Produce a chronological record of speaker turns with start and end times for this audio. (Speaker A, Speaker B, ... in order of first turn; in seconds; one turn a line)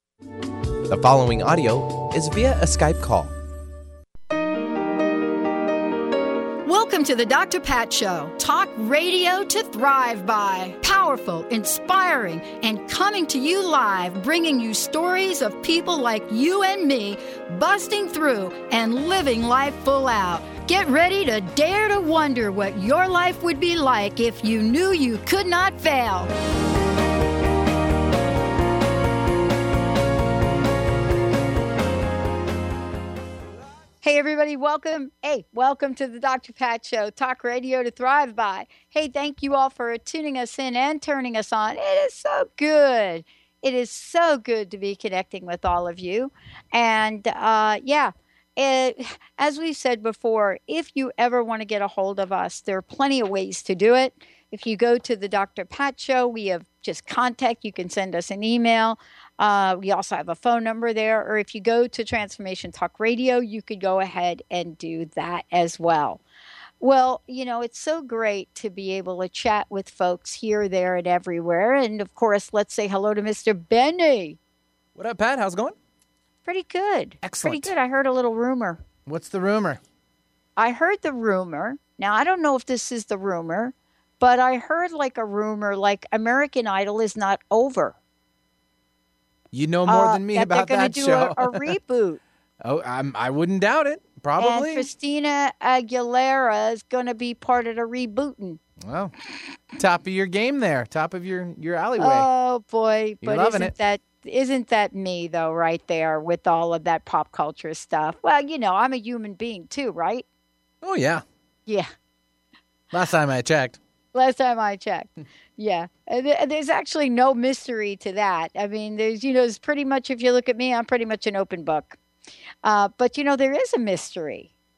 Speaker A: 0.9-3.3
Speaker B: 6.6-26.3
Speaker B: 34.0-66.2
Speaker B: 66.8-74.4
Speaker C: 75.0-75.7
Speaker B: 76.5-78.8
Speaker C: 77.2-77.7
Speaker C: 79.0-79.8
Speaker B: 80.6-88.0
Speaker C: 89.5-91.6
Speaker B: 89.8-92.2
Speaker C: 92.6-94.9
Speaker B: 94.4-98.6
Speaker C: 98.8-99.1
Speaker C: 99.8-102.3
Speaker B: 102.0-110.2
Speaker C: 103.2-103.7
Speaker C: 110.8-111.2
Speaker C: 112.9-113.8
Speaker B: 114.1-122.0
Speaker B: 122.6-124.5